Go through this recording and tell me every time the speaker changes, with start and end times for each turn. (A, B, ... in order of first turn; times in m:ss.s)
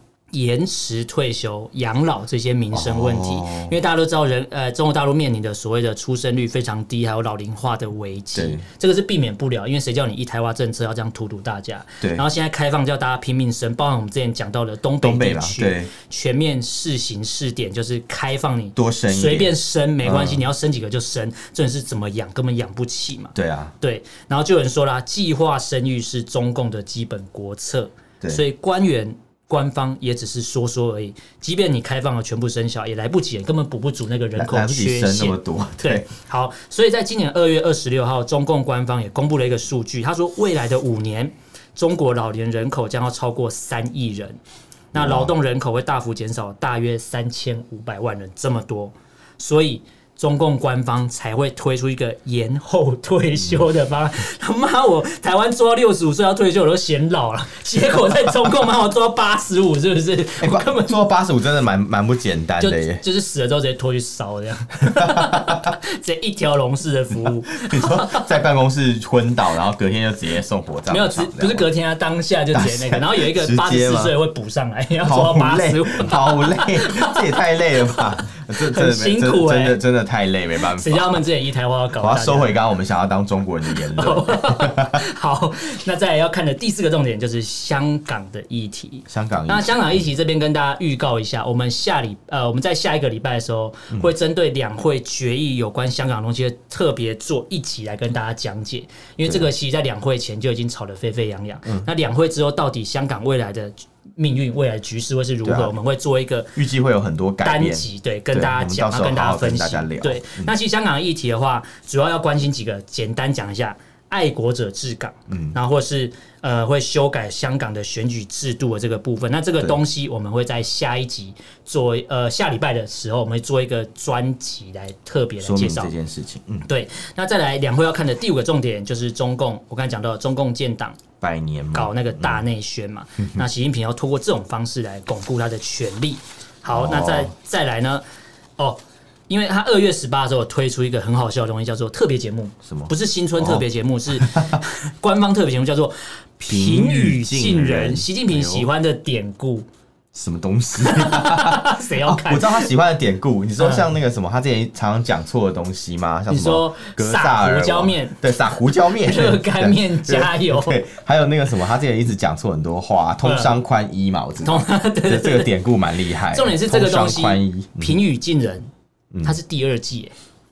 0:00.3-0:44.4 A
0:02.7-0:03.7 B
0:08.3-0:08.6 B
0:15.0-0:15.9 B
0:18.8-0:20.4 B
0:23.3-0:23.7 B
0:34.4-0:36.1 B
0:44.9-1:01.0 A
0:44.9-0:45.3 B
1:00.4-1:03.0 B
1:02.6-1:08.3 A
1:04.8-1:05.8 B
1:07.5-1:11.7 B
1:10.9-1:19.8 A
1:12.5-1:14.2 B
1:15.0-1:21.2 B
1:20.7-1:22.6 A
1:22.0-1:25.0 B
1:23.7-1:46.6 A
1:29.1-1:29.9 B
1:39.2-1:39.5 B
1:45.4-1:45.7 B
1:46.6-1:50.5 B
1:47.4-2:05.9 A
1:55.3-1:55.6 B
2:05.4-2:06.7 B
2:06.7-2:11.0 A
2:11.2-2:12.4 B
2:11.7-2:18.0 A
2:16.7-2:17.3 B
2:18.6-2:29.6 A
2:22.6-2:23.6 B
2:24.1-2:24.6 B
2:26.5-2:28.7 B
2:30.1-2:48.0 B
2:30.8-2:32.7 A
2:33.6-2:33.9 A
2:36.3-2:38.2 A
2:39.0-2:40.8 A
2:43.2-2:43.5 A
2:44.4-2:45.5 A
2:46.3-2:48.7 A
2:49.2-2:50.1 A